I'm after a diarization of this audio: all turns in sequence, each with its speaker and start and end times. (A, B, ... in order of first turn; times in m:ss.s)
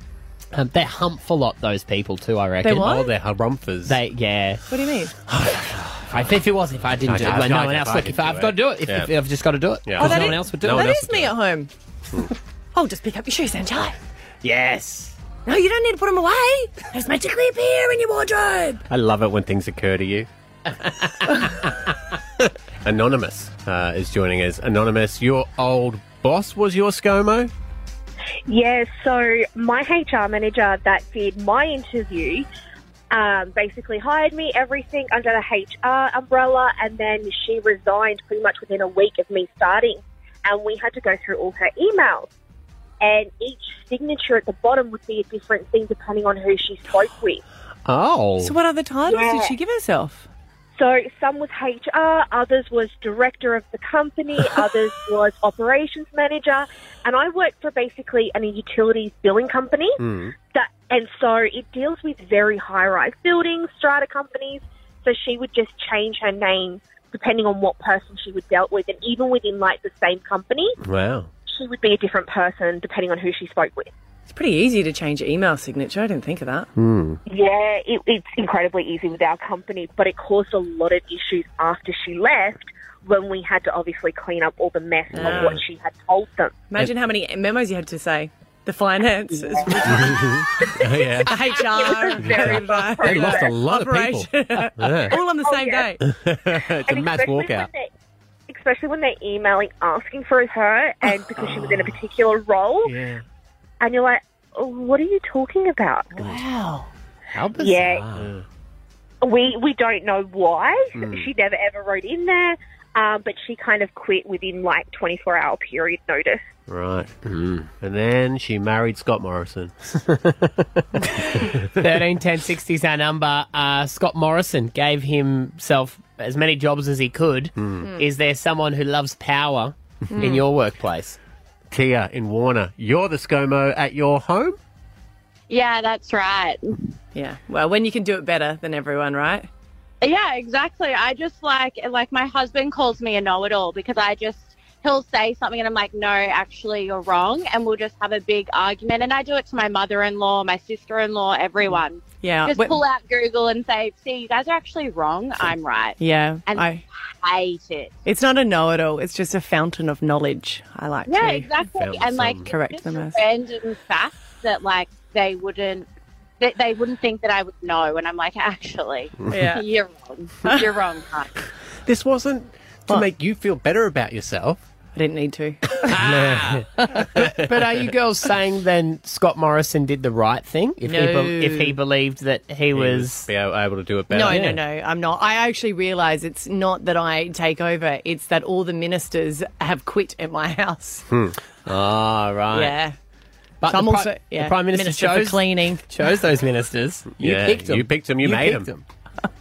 0:00.5-0:03.0 A
0:02.6-0:03.1 B
0:02.8-0:04.0 C
0:03.9-0:04.6 A
0:04.7-0:05.1 B
0:05.4-0:06.0 C
0:06.0-0:11.0 A
0:07.1-0:09.1 C
0:09.9-0:11.3 C
0:10.0-0:11.7 B
0:12.7-0:14.0 B
0:14.4-0:15.2 A
0:15.4-0:18.8 B
0:18.9-0:20.3 C
0:22.4-0:27.5 C
0:28.5-0:32.5 D
0:33.1-0:42.3 D
0:43.0-0:47.4 D
0:47.9-0:48.6 C
0:48.4-0:50.3 B
0:49.1-0:49.6 D
0:50.8-1:00.0 D
1:00.0-1:00.3 C
1:00.5-1:10.7 D
1:10.8-1:11.3 C
1:11.5-1:13.9 D
1:14.3-1:16.7 B
1:16.8-1:17.2 C
1:17.3-1:26.6 D
1:25.1-1:25.6 C
1:25.2-1:25.6 B
1:26.7-1:30.3 B
1:29.4-1:33.5 D
1:29.8-1:31.4 C
1:31.2-1:36.0 B
1:32.2-1:35.2 C
1:35.1-1:35.9 D
1:36.0-1:37.7 C
1:36.9-1:37.9 D
1:38.5-1:43.0 D
1:42.8-1:43.2 C
1:43.8-1:46.2 D
1:46.1-1:46.9 B
1:47.3-1:48.3 A
1:47.6-1:48.0 D
1:48.1-1:48.4 C
1:49.2-1:56.4 D
1:51.0-1:51.3 C
1:56.7-1:59.7 C
1:57.3-1:57.6 A
2:01.2-2:11.2 A
2:01.4-2:01.7 C
2:07.6-2:07.8 C
2:10.1-2:10.4 B
2:11.7-2:14.6 C
2:15.5-2:16.9 E
2:17.1-2:19.5 B
2:20.0-2:37.9 E
2:32.2-2:32.8 B
2:36.0-2:36.8 B
2:38.0-2:41.5 B
2:41.1-2:45.9 E
2:41.7-2:42.5 C
2:42.5-2:43.2 B
2:46.4-2:51.3 E
2:49.3-2:49.6 B
2:51.9-2:54.6 C
2:55.0-2:55.9 B
2:55.8-2:56.6 C
2:55.9-2:56.7 A
2:56.8-2:57.1 B
2:57.2-2:57.4 C
2:57.2-3:03.3 A
3:00.8-3:01.8 B
3:02.7-3:04.4 C
3:04.1-3:11.0 B
3:04.3-3:04.6 A
3:11.1-3:11.4 C
3:11.7-3:12.8 A
3:12.5-3:13.0 B
3:13.6-3:18.8 A
3:13.6-3:15.8 B
3:17.2-3:18.7 C